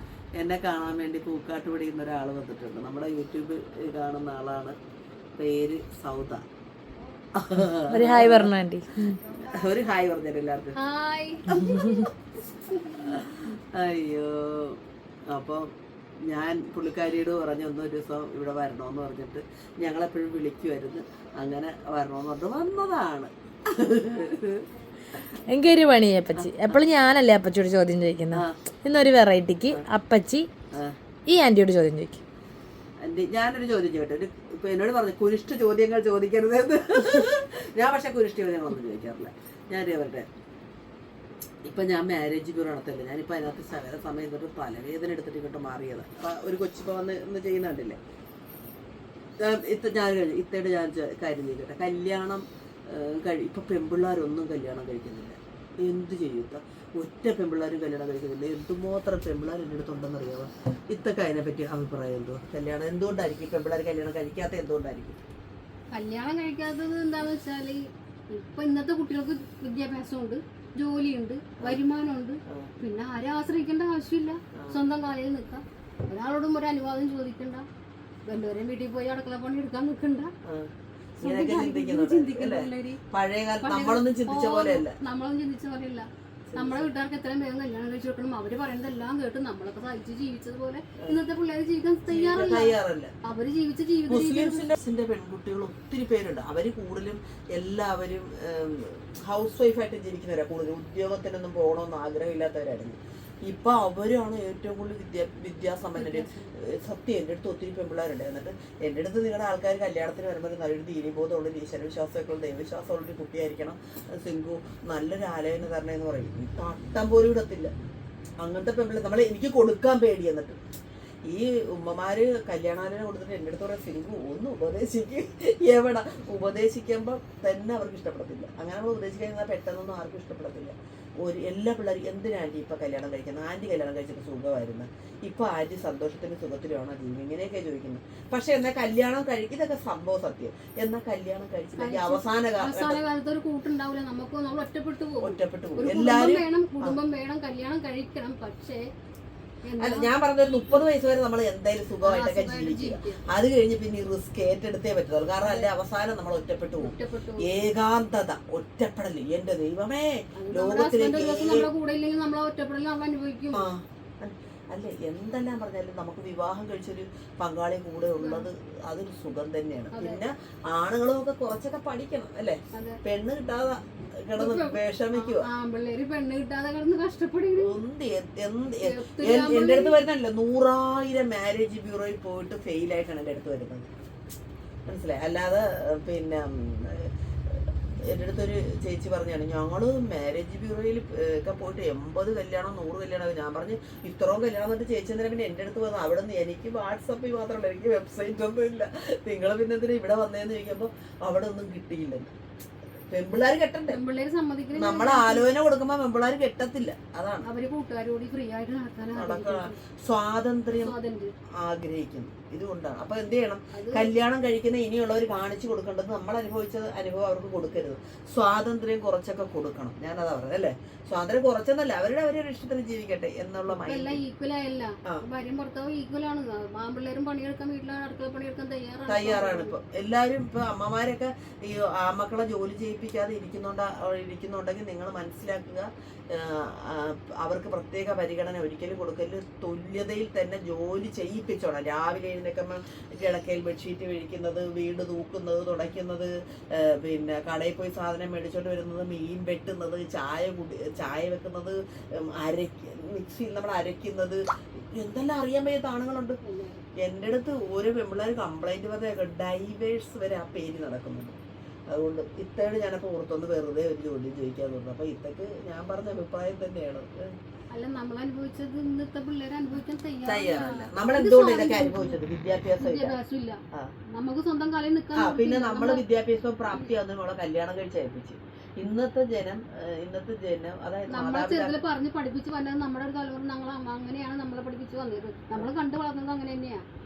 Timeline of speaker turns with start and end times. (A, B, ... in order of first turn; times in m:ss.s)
0:00.4-0:04.8 A
0:05.4-0:06.4 A
0:07.3-0:08.6 A
0:07.9-0:09.2 B
0:09.3-0:10.8 A
0:10.7-0:11.5 C
0:11.4-0:12.1 A
0:11.7-0:12.0 B
0:12.8-0:15.7 A
0:16.3-0:25.2 A
0:25.5-0:30.5 B
0:26.4-0:26.8 A
0:28.3-0:28.6 A
0:30.7-0:31.0 A
0:31.3-0:32.2 B
0:33.0-0:40.3 A
0:41.6-0:48.0 A
0:49.4-1:05.2 A
1:05.9-1:17.6 C
1:12.5-1:12.7 A
1:14.5-1:14.8 A
1:18.2-1:20.3 C
1:20.4-1:25.0 A
1:21.2-1:23.0 C
1:23.6-1:34.7 C
1:26.5-1:26.9 A
1:32.1-1:33.1 A
1:34.1-1:57.7 A
1:46.0-1:46.5 C
1:58.4-2:00.6 A
2:01.2-2:23.0 A
2:21.8-2:28.8 C
2:25.2-2:27.0 A
2:29.6-2:30.1 C
2:29.8-2:41.7 A
2:32.0-2:33.2 C
2:35.4-2:35.7 C
2:36.8-2:37.5 C
2:40.4-2:43.6 C
2:43.5-2:55.5 A
2:48.2-2:48.5 C
2:49.9-2:50.2 C
2:52.7-2:53.0 C
2:54.4-2:57.7 C
2:57.6-3:03.9 A
2:58.8-3:00.0 C
3:04.9-3:22.3 A
3:23.1-3:24.0 A
3:23.9-3:25.5 C
3:24.7-3:27.4 A
3:27.4-3:29.8 C
3:29.1-3:30.9 A
3:30.8-3:31.3 C
3:31.6-3:44.2 A
3:33.7-3:34.1 C
3:43.7-3:49.8 C
3:49.1-4:14.4 A
4:14.9-4:16.4 A
4:16.4-4:16.8 C
4:17.0-4:21.4 A
4:21.9-4:27.3 A
4:27.7-4:32.2 C
4:30.2-4:33.1 A
4:32.8-4:33.6 C
4:34.1-4:36.0 C
4:35.1-4:41.7 A
4:41.1-4:46.8 C